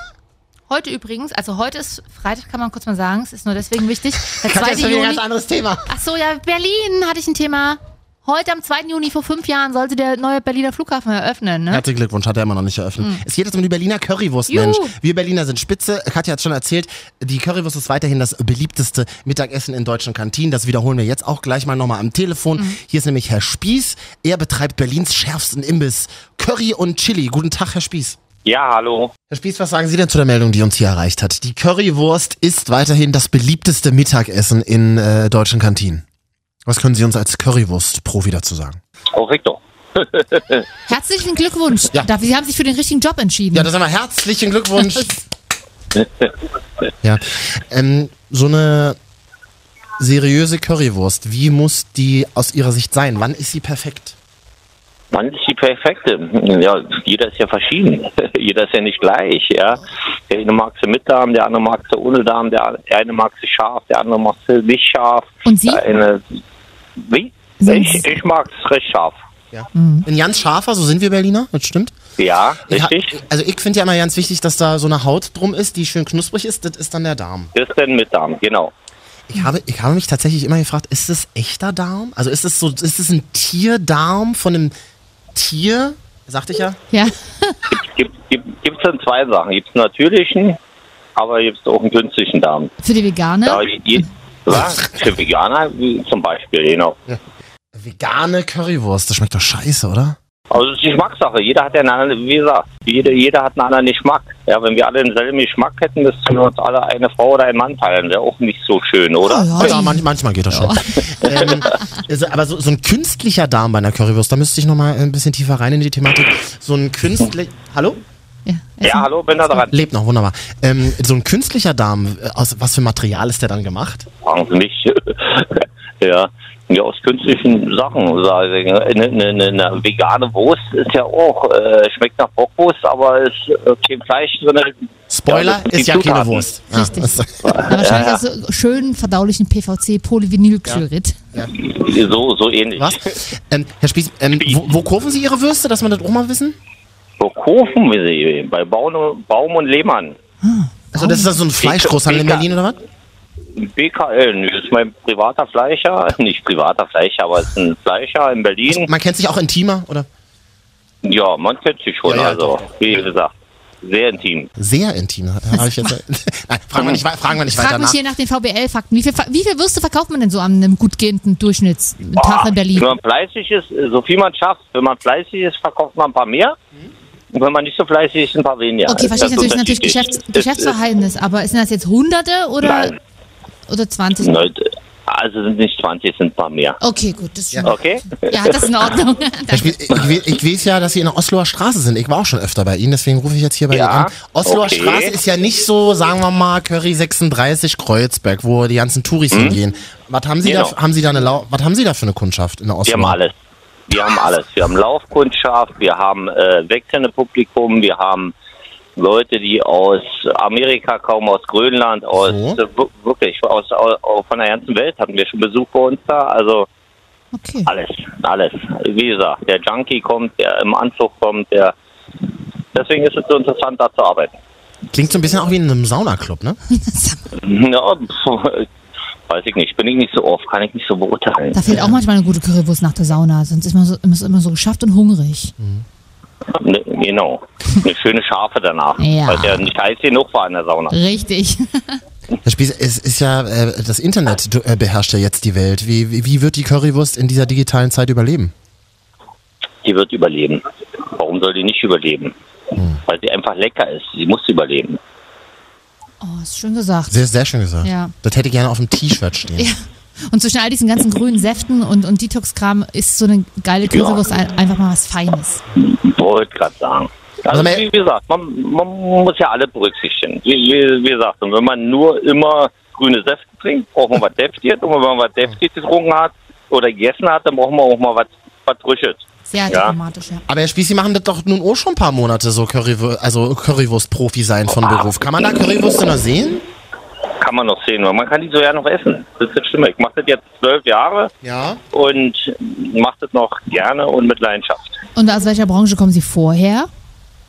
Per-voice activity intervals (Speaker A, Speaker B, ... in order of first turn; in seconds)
Speaker A: 0.7-5.2, 5.9-11.8, 14.5-14.9, 40.9-43.7, 65.5-65.8, 67.6-68.2, 69.7-70.1, 86.9-87.6, 92.8-93.7, 109.2-111.8, 118.5-119.6, 136.7-141.2, 150.4-151.4, 167.4-172.9, 178.9-182.9, 183.7-184.5, 186.8-189.8, 217.3-217.7, 226.7-227.2, 231.5-235.5, 239.0-239.7, 240.9-242.0, 256.2-257.2, 257.8-258.1, 259.6-265.6, 279.4-280.5, 295.1-296.9
Speaker B: 4.3-5.9, 11.7-28.2, 29.3-36.0, 36.7-38.8, 43.5-45.2, 47.0-49.0, 50.0-54.2, 69.5-72.0, 72.7-77.5, 79.3-84.7, 85.3-86.8, 97.7-100.2, 109.6-118.0, 119.7-124.1, 135.1-137.7, 142.8-146.6, 150.9-152.8, 158.7-160.1, 162.1-162.7, 164.6-168.0, 189.5-203.2, 212.2-212.6, 224.9-226.6, 231.7-232.0, 235.6-235.8, 242.4-248.5, 252.8-253.0, 257.1-259.7, 267.5-267.9, 280.5-286.7, 291.4-291.8
Speaker C: 28.4-29.1, 39.1-40.7, 46.0-46.3, 55.1-66.4, 67.0-69.2, 72.2-73.2, 77.5-78.7, 87.7-90.6, 91.2-92.7, 93.5-97.0, 100.5-109.8, 111.3-111.6, 118.8-119.7, 124.2-134.7, 135.3-136.5, 137.4-138.2, 141.5-143.0, 147.2-150.2, 151.6-152.5, 153.6-158.9, 161.0-164.5, 172.2-176.6, 177.3-180.7, 182.6-183.0, 184.2-186.8, 187.6-188.7, 193.7-195.1, 199.3-199.6, 200.4-200.8, 202.9-203.3, 203.9-208.3, 209.0-216.7, 217.7-221.8, 222.7-224.4, 227.3-228.7, 229.3-231.6, 236.5-241.0, 249.8-252.3, 253.1-255.0, 263.9-264.2, 265.8-279.9, 287.4-291.3, 291.9-295.0